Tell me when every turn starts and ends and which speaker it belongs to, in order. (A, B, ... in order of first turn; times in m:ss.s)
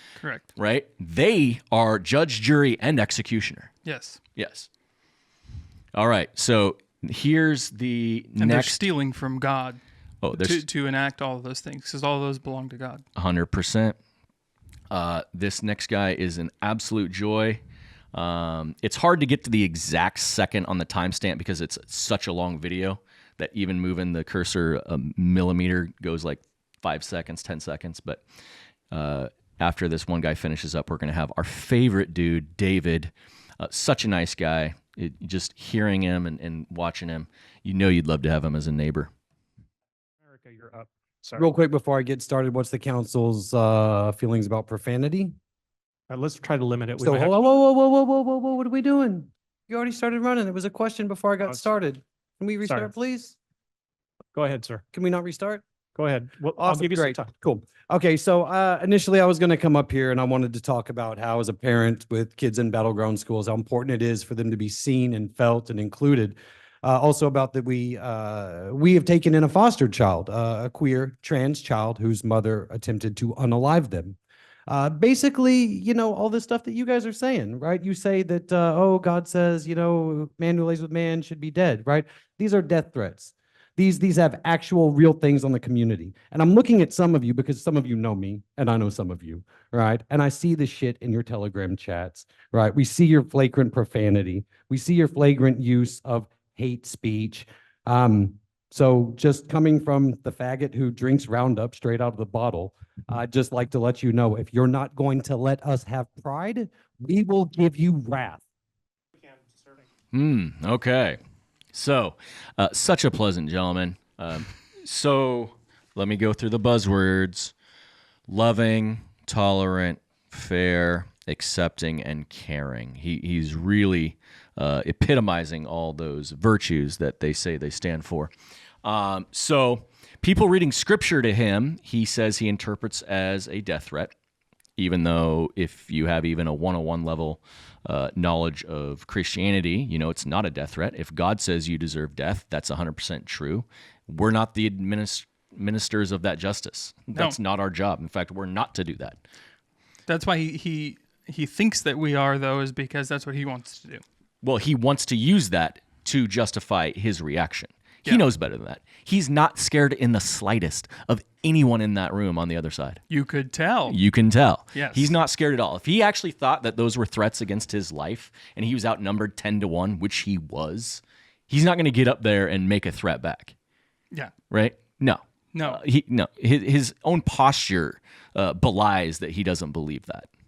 0:00.2-0:00.5 A
0:00.6-0:03.7 B
0:03.8-0:04.2 A
0:04.4-0:04.7 B
0:05.9-0:08.8 B
0:08.4-0:09.8 A
0:10.2-0:10.6 B
0:10.3-0:13.0 A
0:13.2-0:14.0 B
0:14.9-0:17.6 B
0:18.1-0:28.2 B
0:28.9-0:39.1 B
0:40.2-0:41.5 C
0:41.4-0:45.3 D
0:46.1-0:47.4 C
0:47.0-0:53.4 D
0:54.3-0:54.8 C
0:54.9-0:55.6 D
0:55.9-0:57.3 C
0:56.6-1:14.2 D
1:14.7-1:48.4 D
1:50.1-1:51.2 B
1:51.7-1:57.5 B
1:58.3-2:08.3 B
2:08.8-2:14.1 B
2:14.8-2:29.2 B
2:30.1-2:34.0 A
2:34.4-2:43.0 B
2:43.1-2:44.0 A
2:43.9-2:53.5 B
2:44.7-2:45.1 A
2:54.5-3:00.3 B
2:55.5-2:55.8 A